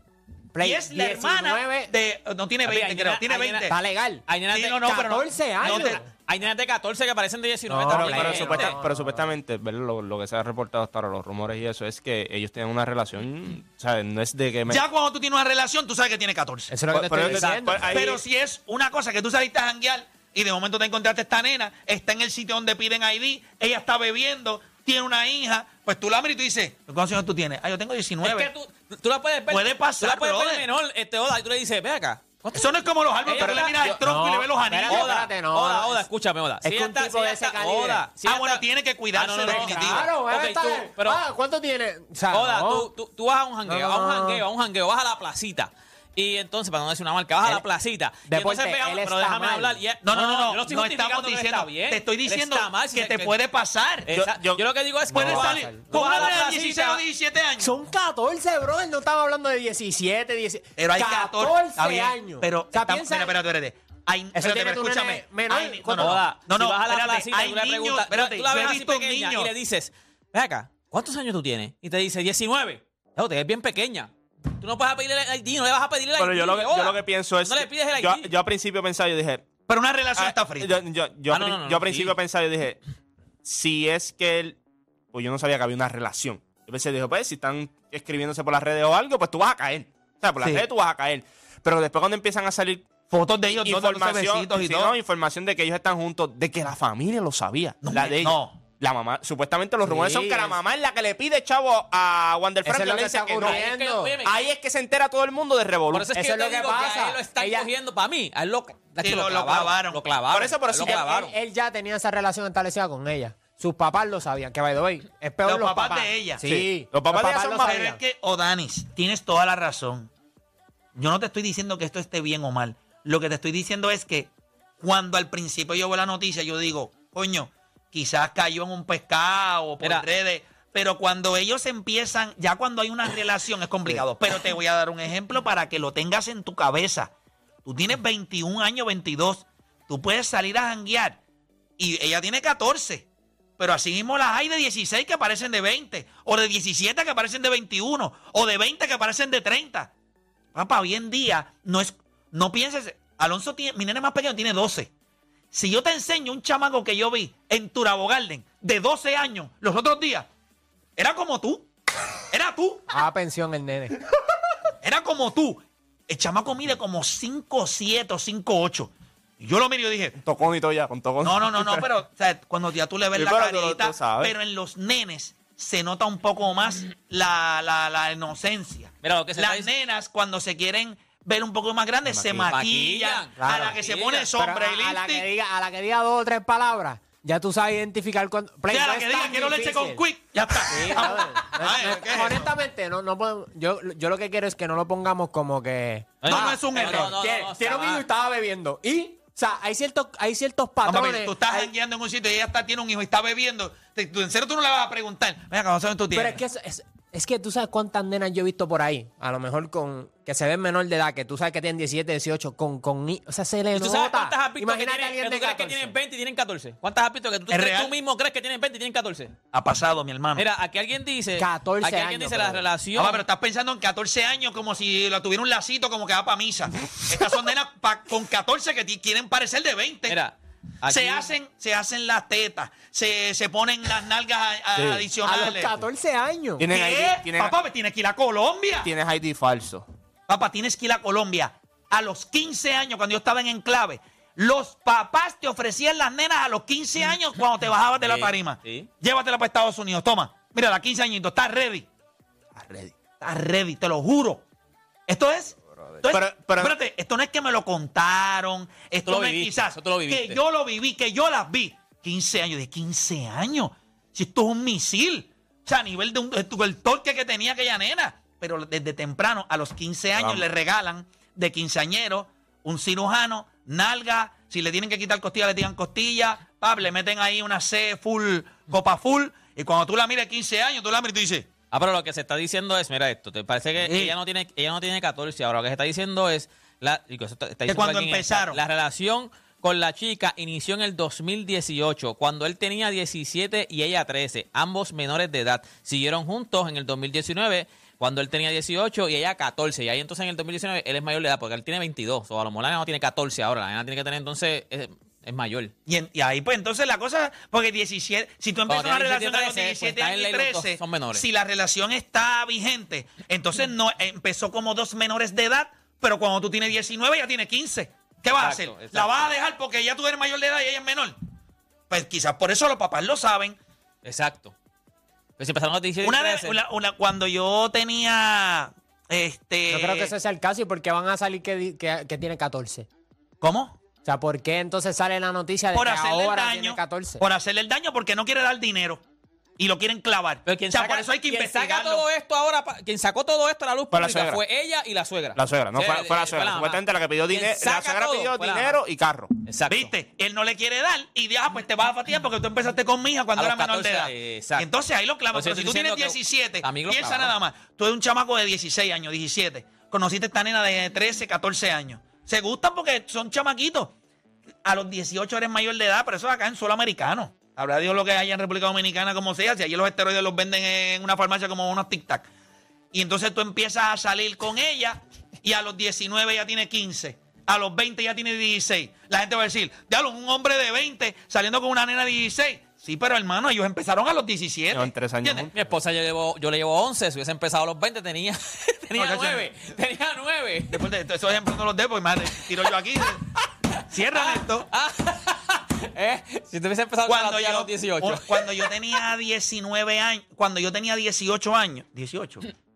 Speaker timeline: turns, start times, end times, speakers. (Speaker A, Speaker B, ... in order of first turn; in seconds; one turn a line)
Speaker A: 0.6-1.9
Speaker B: 0.6-3.8
Speaker C: 2.6-3.7
Speaker A: 3.7-4.2
Speaker C: 4.3-4.9
Speaker B: 4.5-6.0
Speaker A: 4.8-6.1
Speaker C: 5.6-8.8
Speaker A: 7.7-9.3
Speaker D: 7.9-14.8
Speaker B: 14.7-16.8
Speaker A: 16.7-18.0
Speaker D: 16.9-18.2
Speaker B: 17.9-28.5
Speaker C: 28.2-33.9
Speaker B: 29.5-30.6
Speaker B: 32.5-35.1
Speaker A: 33.4-36.0
Speaker C: 34.9-38.6
Speaker A: 36.6-38.3
Speaker B: 38.2-40.1
Speaker C: 39.1-41.2
Speaker A: 39.5-42.9
Speaker C: 42.3-53.3
Speaker A: 43.7-44.4
Speaker A: 48.3-49.8
Speaker B: 50.0-54.1
Speaker C: 54.1-57.0
Speaker D: 54.1-55.4
Speaker B: 55.1-57.7
Speaker A: 55.2-56.5
Speaker A: 57.6-63.4
Speaker B: 60.8-69.5
Speaker A: 64.3-66.2
Speaker C: 66.0-78.3
Speaker D: 76.2-79.5
Speaker B: 79.7-80.8
Speaker D: 80.2-82.8
Speaker C: 81.3-82.2
Speaker D: 83.4-84.6
Speaker D: 85.1-92.9
Speaker B: 90.4-90.7
Speaker B: 93.1-95.0
Speaker D: 93.5-103.7
Speaker B: 97.8-98.6
Speaker A: 99.8-100.6
Speaker A: 102.7-104.1
Speaker C: 103.4-104.4
Speaker D: 104.2-106.1
Speaker C: 105.9-111.3
Speaker A: 106.2-107.7
Speaker B: 109.0-110.0
Speaker D: 110.3-111.1
Speaker A: 110.8-118.0
Speaker B: 115.4-116.4
Speaker D: 116.4-117.7
Speaker B: 117.6-120.1
Speaker B: 121.0-137.1
Speaker B: 137.7-141.2
Speaker B: 141.8-143.1
Speaker B: 143.6-149.9
Speaker B: 150.5-154.9
Speaker B: 155.5-160.3
Speaker B: 161.0-161.7
Speaker B: 162.3-162.9
Speaker A: 162.9-164.0
Speaker B: 164.8-170.2
Speaker D: 170.2-171.9
Speaker B: 171.2-185.2
Speaker D: 173.2-174.3
Speaker C: 179.0-179.7
Speaker D: 182.1-182.4
Speaker C: 182.3-184.3
Speaker A: 183.4-183.8
Speaker A: 184.4-190.0
Speaker B: 188.7-192.5
Speaker A: 190.7-201.7
Speaker C: 196.2-198.0
Speaker B: 196.3-197.2
Speaker B: 200.8-206.4
Speaker A: 206.1-216.0
Speaker C: 213.8-219.3
Speaker B: 217.5-217.9
Speaker B: 219.5-220.4
Speaker C: 220.4-223.2
Speaker A: 221.4-222.7
Speaker B: 223.0-230.2
Speaker C: 230.1-231.3
Speaker B: 230.9-235.8
Speaker D: 234.8-235.1
Speaker A: 235.2-236.7
Speaker D: 236.6-237.6
Speaker B: 236.7-238.9
Speaker D: 238.8-239.9
Speaker B: 240.3-251.9
Speaker C: 248.0-248.9
Speaker D: 252.6-253.0
Speaker B: 253.2-254.4
Speaker B: 255.1-281.5
Speaker D: 256.1-256.8
Speaker C: 259.1-260.4
Speaker D: 270.1-270.4
Speaker C: 281.7-305.7
Speaker B: 283.8-284.1
Speaker B: 287.7-288.6
Speaker B: 305.9-321.2
Speaker C: 308.7-311.3
Speaker C: 318.4-319.3
Speaker B: 321.9-323.6
Speaker C: 324.1-324.5
Speaker C: 325.4-326.6
Speaker B: 326.0-330.1
Speaker A: 329.7-332.9
Speaker B: 333.4-333.8
Speaker A: 334.1-337.2
Speaker B: 335.7-339.0
Speaker B: 339.6-342.1
Speaker C: 340.5-348.8
Speaker D: 343.9-344.4
Speaker D: 345.4-349.3
Speaker C: 349.5-349.9
Speaker B: 349.7-363.9
Speaker C: 353.4-354.7
Speaker C: 355.3-357.4
Speaker B: 364.6-372.3
Speaker B: 372.9-385.5
Speaker D: 384.7-385.5
Speaker C: 385.5-390.9
Speaker B: 389.0-389.5
Speaker B: 390.7-393.2
Speaker C: 392.7-393.0
Speaker B: 393.9-394.7
Speaker C: 394.1-398.8
Speaker B: 397.1-402.5